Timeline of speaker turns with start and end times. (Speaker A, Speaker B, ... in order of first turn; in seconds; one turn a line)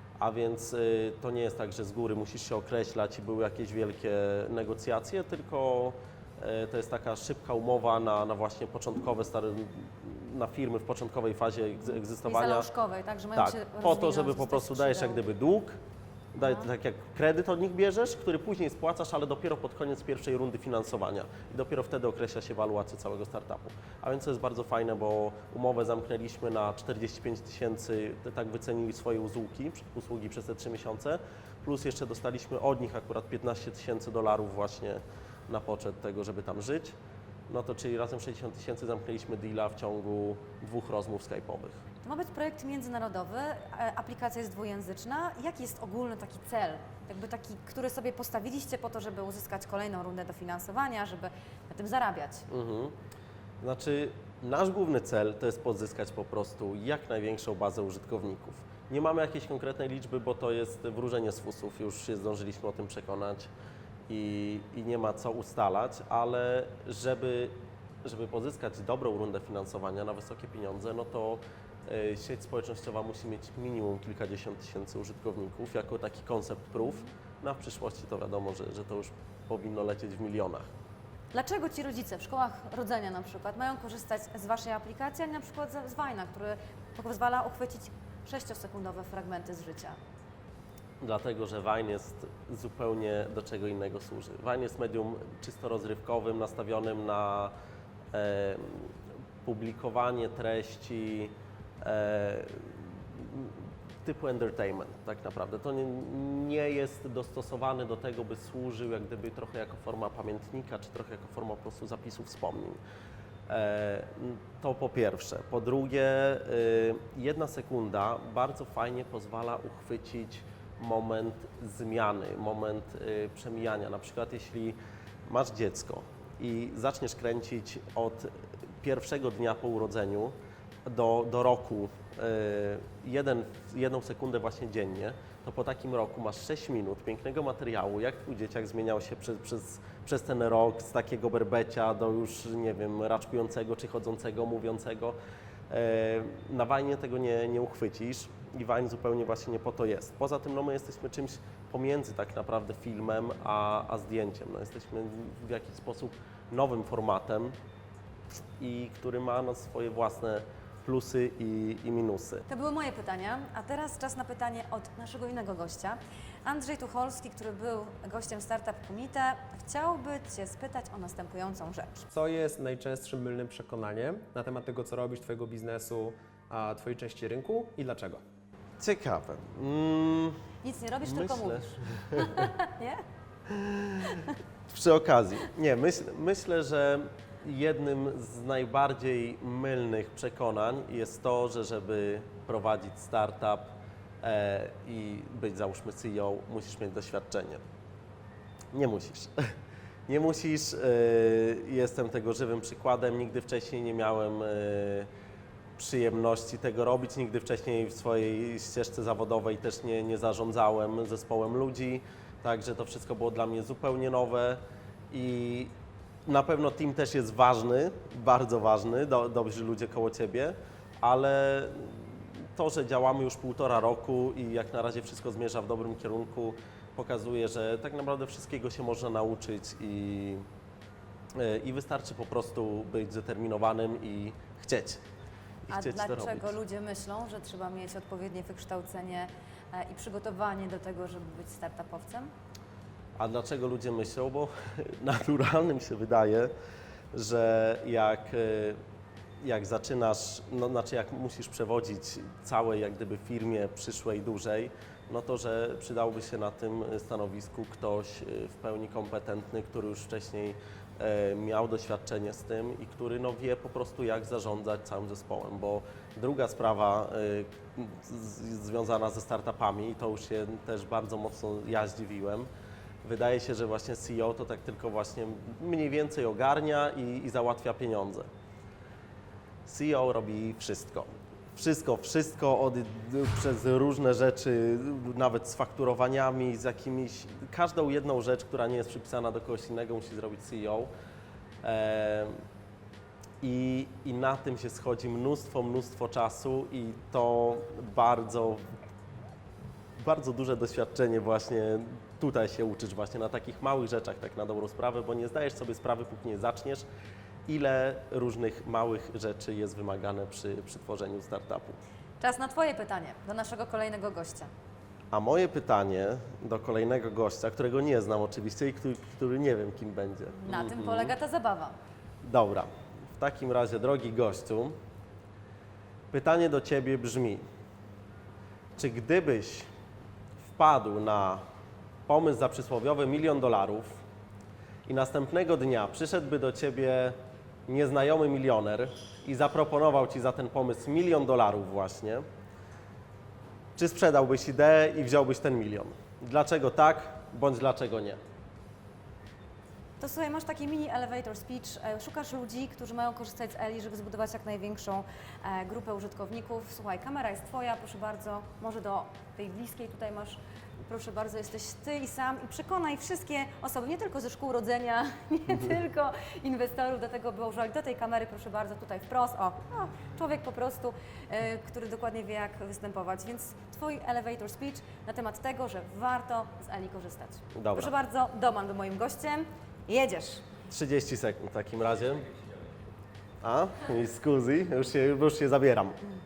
Speaker A: 0.2-12.7
Speaker B: 12.2-15.2
Speaker A: 13.3-15.8
Speaker A: 16.4-37.0
Speaker B: 16.4-16.7
Speaker A: 37.5-41.8
Speaker B: 42.0-52.5
Speaker A: 52.5-52.9
Speaker A: 53.6-63.5
Speaker A: 64.1-80.7
Speaker B: 81.3-90.0
Speaker A: 91.0-97.5
Speaker A: 98.1-112.8
Speaker A: 113.5-128.3
Speaker A: 128.8-130.3
Speaker A: 130.9-145.2
Speaker A: 145.7-157.6
Speaker A: 158.6-162.4
Speaker B: 162.5-172.1
Speaker C: 172.1-178.2
Speaker A: 178.8-180.4
Speaker B: 180.6-183.0
Speaker A: 181.0-182.5
Speaker A: 183.5-197.6
Speaker A: 198.7-199.4
Speaker A: 200.1-205.1
Speaker A: 205.8-214.6
Speaker A: 215.1-215.7
Speaker A: 216.3-230.4
Speaker A: 231.3-235.0
Speaker A: 235.7-236.6
Speaker B: 235.7-242.3
Speaker A: 243.2-246.5
Speaker A: 247.1-248.8
Speaker A: 249.4-272.5
Speaker A: 273.0-278.3
Speaker A: 279.6-290.9
Speaker A: 291.6-292.4
Speaker A: 293.4-298.8
Speaker A: 300.0-306.9
Speaker A: 307.5-311.8
Speaker B: 312.2-314.5
Speaker A: 315.1-321.1
Speaker B: 320.4-321.8
Speaker A: 322.2-324.8
Speaker A: 326.1-327.4
Speaker A: 328.8-329.7
Speaker A: 330.4-331.4
Speaker A: 332.1-334.0
Speaker A: 334.9-342.2
Speaker A: 343.8-348.2
Speaker B: 350.0-380.5
Speaker A: 377.6-377.9
Speaker A: 380.7-382.4
Speaker A: 383.4-386.0